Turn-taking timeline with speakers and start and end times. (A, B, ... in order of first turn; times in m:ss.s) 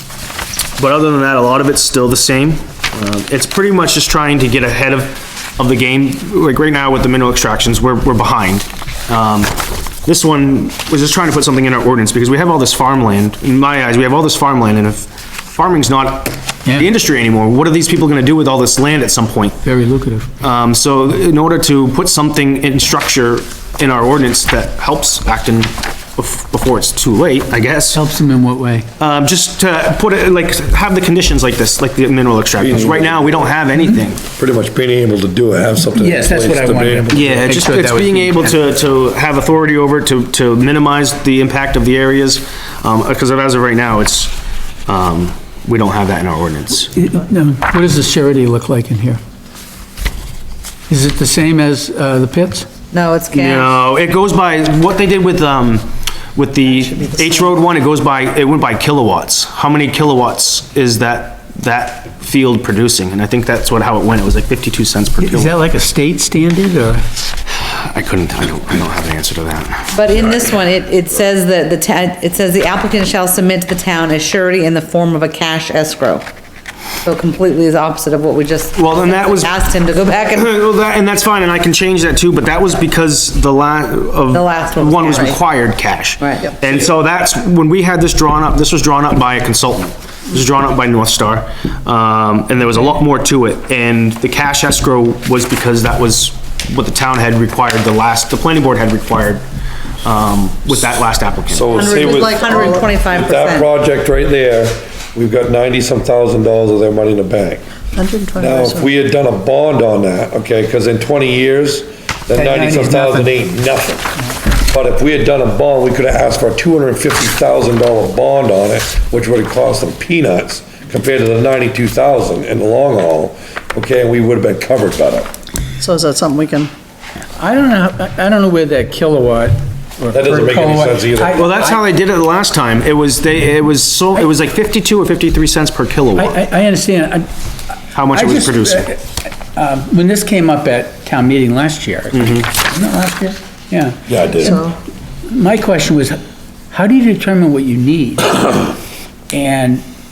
0:00.8-0:19.6 A
0:19.6-0:20.3 B
0:20.4-0:28.0 A
0:27.9-0:28.9 B
0:29.0-0:34.2 A
0:32.6-0:33.4 C
0:34.3-0:37.2 C
0:35.9-0:38.7 B
0:37.1-0:44.3 A
0:44.9-0:46.9 A
0:46.9-0:49.2 B
0:50.9-0:52.7 B
0:52.9-0:53.7 D
0:53.3-1:05.6 A
0:56.8-0:57.4 D
1:05.2-1:07.0 B
1:07.6-1:10.0 A
1:09.9-1:16.2 D
1:10.2-1:10.5 C
1:17.0-1:20.5 D
1:18.7-1:39.4 A
1:24.3-1:25.4 D
1:26.2-1:26.5 D
1:40.0-1:41.8 A
1:41.5-1:47.6 C
1:41.7-1:43.7 D
1:42.0-1:42.6 E
1:47.9-1:48.9 E
1:48.4-1:54.1 C
1:52.3-1:53.3 B
1:54.6-2:05.3 C
2:05.8-2:06.7 E
2:07.4-2:11.8 B
2:10.1-2:11.4 C
2:11.4-2:16.4 A
2:16.2-2:17.3 B
2:17.9-2:24.7 B
2:17.9-2:18.9 A
2:22.1-2:22.4 A
2:24.1-2:24.6 C
2:24.4-2:24.7 D
2:25.2-2:26.2 B
2:26.7-2:28.7 B
2:29.3-2:29.8 B